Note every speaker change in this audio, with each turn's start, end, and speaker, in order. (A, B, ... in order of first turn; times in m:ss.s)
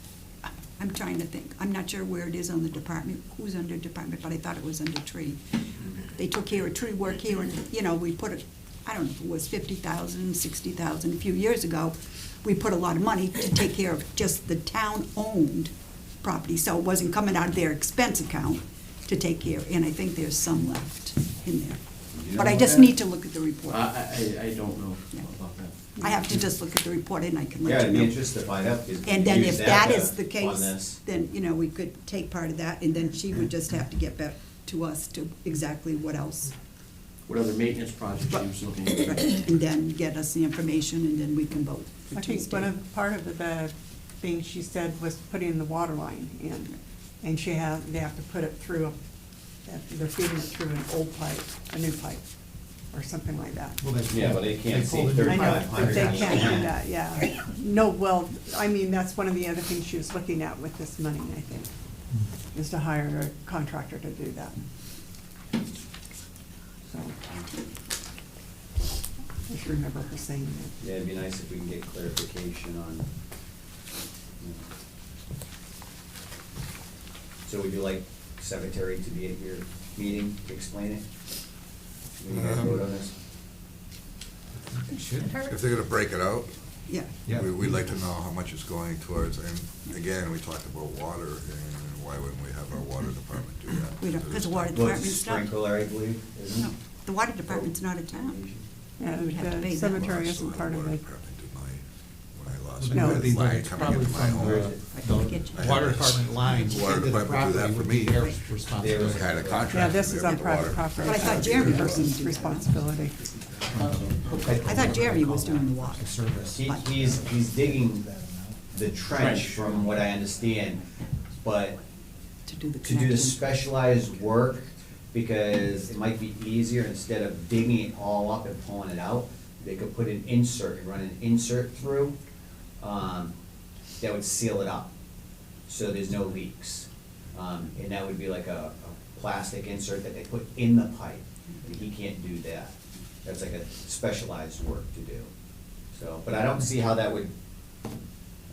0:00.4-0:23.9 A
0:22.1-0:22.9 B
0:23.7-0:25.7 C
0:26.0-0:26.2 D
0:26.0-0:28.2 A
0:27.6-0:31.0 B
0:29.0-0:36.5 A
0:37.3-0:39.3 C
0:38.3-0:42.7 A
0:42.1-0:49.0 D
0:49.6-0:52.2 D
0:52.9-0:53.8 D
0:53.8-0:56.7 E
0:54.1-0:56.8 B
0:55.2-1:01.7 D
1:02.5-1:04.6 D
1:06.9-1:07.2 D
1:09.5-1:10.8 D
1:10.8-1:13.0 B
1:14.4-1:14.6 B
1:17.4-1:21.0 B
1:22.2-1:23.1 B
1:22.3-1:22.8 E
1:24.7-1:25.5 E
1:25.4-1:26.6 F
1:26.9-1:27.1 A
1:27.2-1:27.6 E
1:27.2-1:34.8 F
1:34.0-1:35.5 A
1:34.7-1:36.7 B
1:36.6-1:38.4 A
1:37.5-1:38.6 B
1:39.0-1:41.0 D
1:39.2-1:40.4 A
1:40.2-1:44.8 F
1:42.8-1:49.3 E
1:42.9-1:43.3 D
1:44.4-1:44.8 B
1:44.9-1:47.1 A
1:45.4-1:52.1 F
1:48.8-1:49.9 B
1:49.7-1:53.4 D
1:50.2-1:52.7 A
1:53.6-1:58.8 E
1:54.4-1:55.0 B
1:54.5-1:56.9 A
1:56.5-1:58.1 B
1:58.7-2:00.8 B
1:59.1-1:59.6 C
1:59.6-1:59.9 E
2:01.4-2:01.8 B
2:02.4-2:03.4 A
2:02.8-2:12.2 B
2:12.8-2:13.3 B
2:14.0-2:14.9 B
2:15.6-2:25.3 B
2:25.9-2:27.3 B